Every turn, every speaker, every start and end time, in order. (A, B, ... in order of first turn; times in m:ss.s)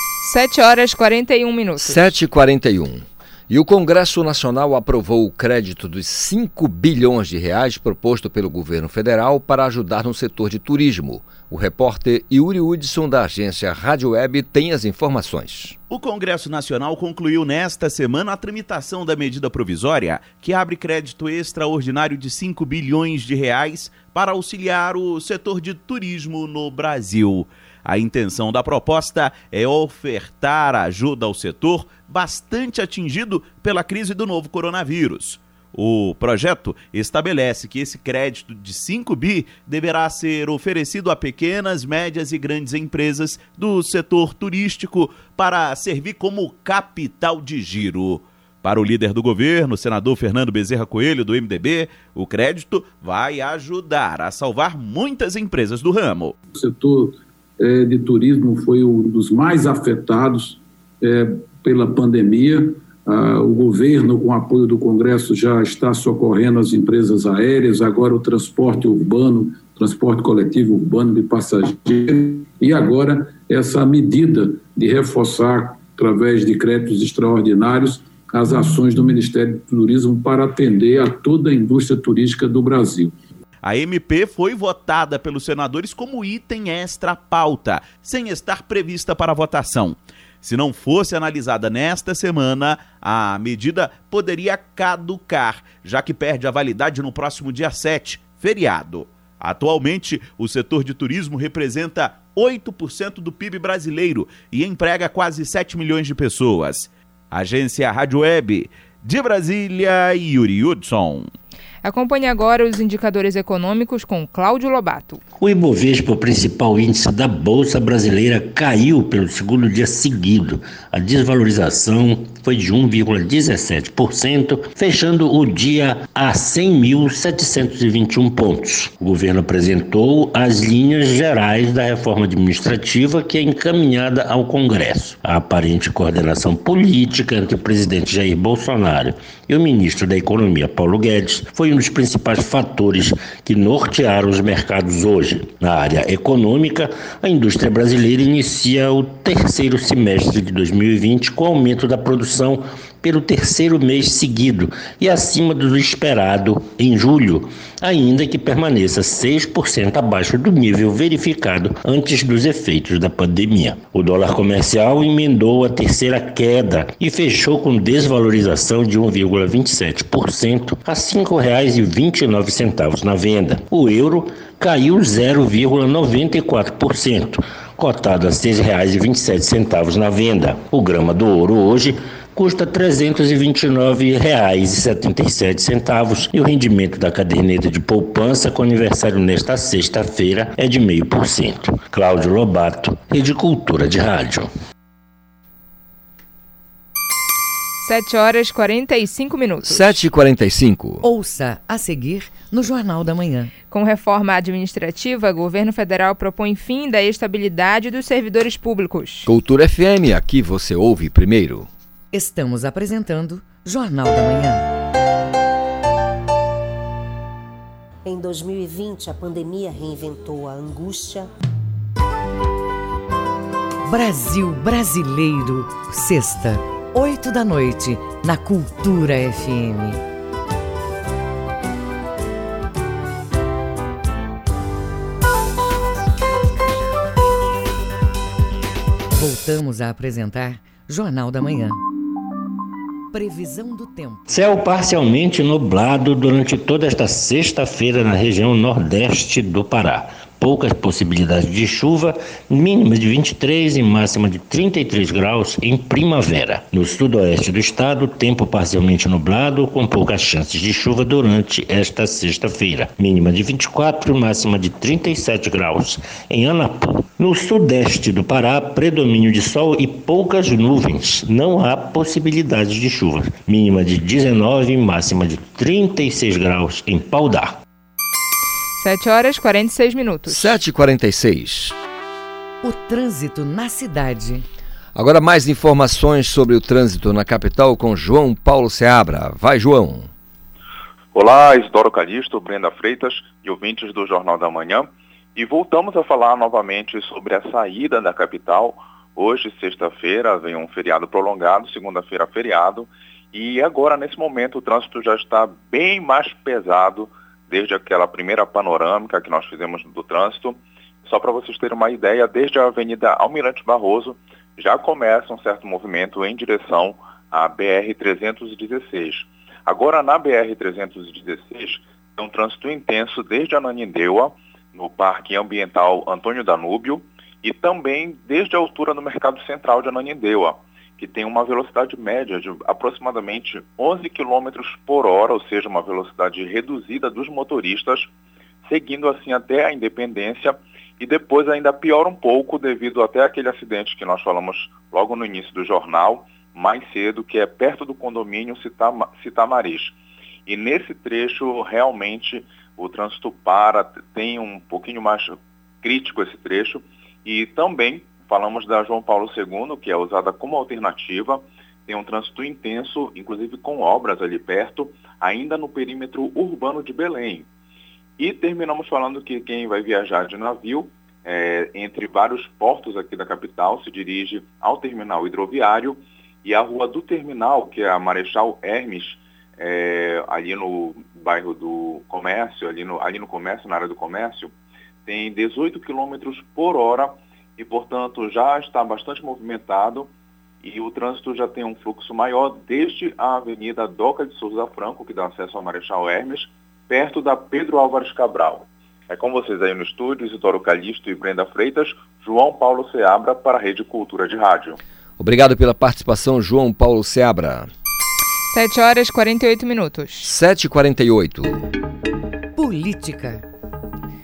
0:00.2-0:02.1 A
0:01.8-0:15.8 B
0:15.9-0:56.3 C
0:56.5-1:23.1 D
1:23.6-1:51.3 C
1:51.8-1:55.2 A
1:55.4-3:14.5 E
3:17.8-3:20.0 A
3:19.6-3:21.0 B
3:21.0-3:23.5 F
3:23.7-3:29.3 A
3:29.3-3:31.7 B
3:32.1-3:34.7 F
3:38.1-3:41.3 G
3:43.8-3:50.0 F
3:59.2-4:01.8 F
4:03.1-4:04.3 F
4:04.3-4:37.6 E
4:38.8-4:40.6 A
4:40.3-4:41.7 B
4:42.6-4:44.4 F
4:45.0-4:50.1 B
4:51.1-5:38.1 H
5:38.7-6:07.5 H
6:08.2-6:24.5 H
6:25.1-6:30.1 H
6:30.6-6:44.8 H
6:45.2-6:47.7 B
6:48.5-6:50.3 A
6:50.2-6:51.6 B
6:52.6-6:53.4 F